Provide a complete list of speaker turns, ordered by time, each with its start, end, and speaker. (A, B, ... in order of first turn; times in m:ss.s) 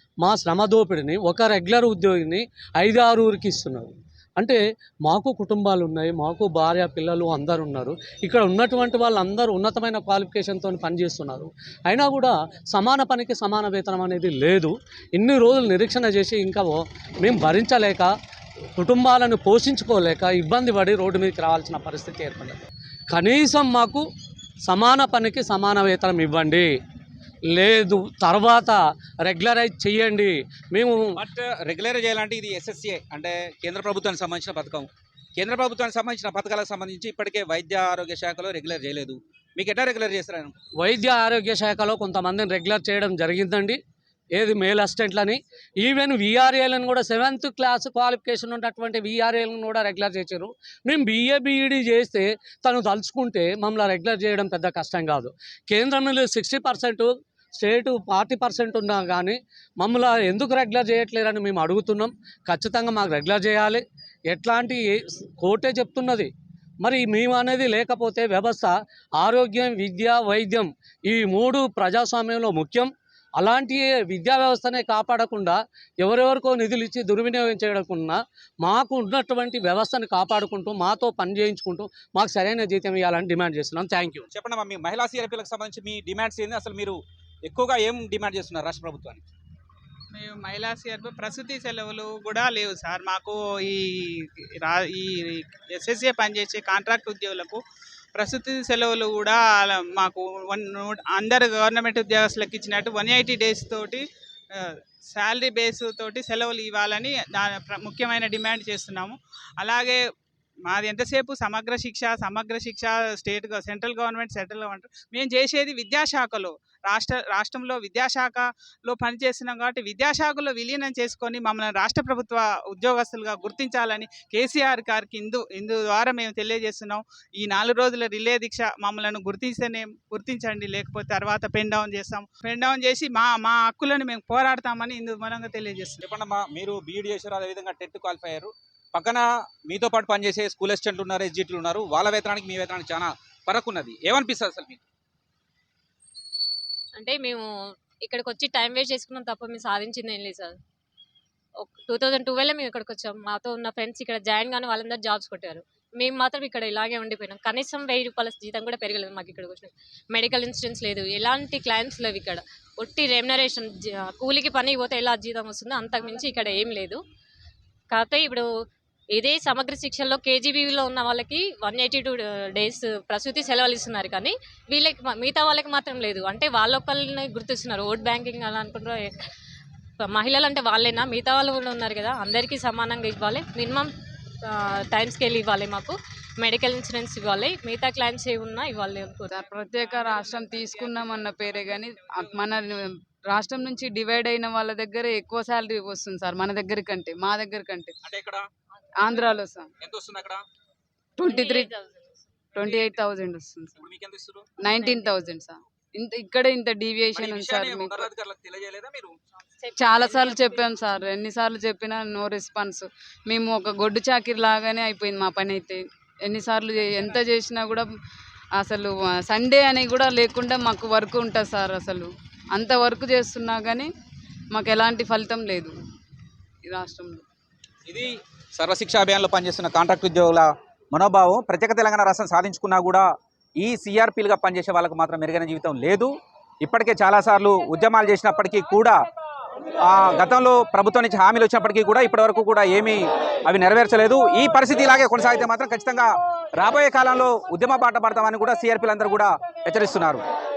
0:00.2-0:18.1 A
0:18.8-0:22.6 A
0:23.1-0:24.0 A
0:24.7-0:26.7 A
0:27.5-0:31.2 A
0:31.1-0:40.5 B
0:40.8-0:43.8 A
0:44.3-1:06.3 A
1:06.8-1:24.3 A
1:24.3-1:29.2 B
1:30.2-1:37.6 C
1:38.2-1:44.0 C
1:45.1-1:50.0 C
1:50.7-2:16.0 C
2:16.0-2:24.8 B
2:27.0-2:27.5 D
2:28.0-2:30.6 D
2:31.6-2:47.0 D
2:47.9-2:48.4 D
2:49.2-2:59.1 D
3:00.0-3:03.9 D
3:04.4-3:09.3 D
3:09.3-3:17.9 E
3:18.0-3:18.4 B
3:19.0-3:19.7 E
3:19.8-3:20.4 B
3:21.2-3:21.7 E
3:21.2-3:22.1 D
3:22.6-3:23.8 E
3:23.8-3:24.5 B
3:24.6-3:28.1 E
3:24.7-3:25.3 D
3:27.1-3:29.2 B
3:29.6-3:31.0 D
3:29.8-3:37.9 E
3:38.6-3:43.9 E
3:44.5-3:45.8 E
3:46.7-3:47.2 E
3:47.9-3:53.1 B
3:53.6-3:56.1 B
3:56.6-3:59.0 B
3:59.8-4:10.2 B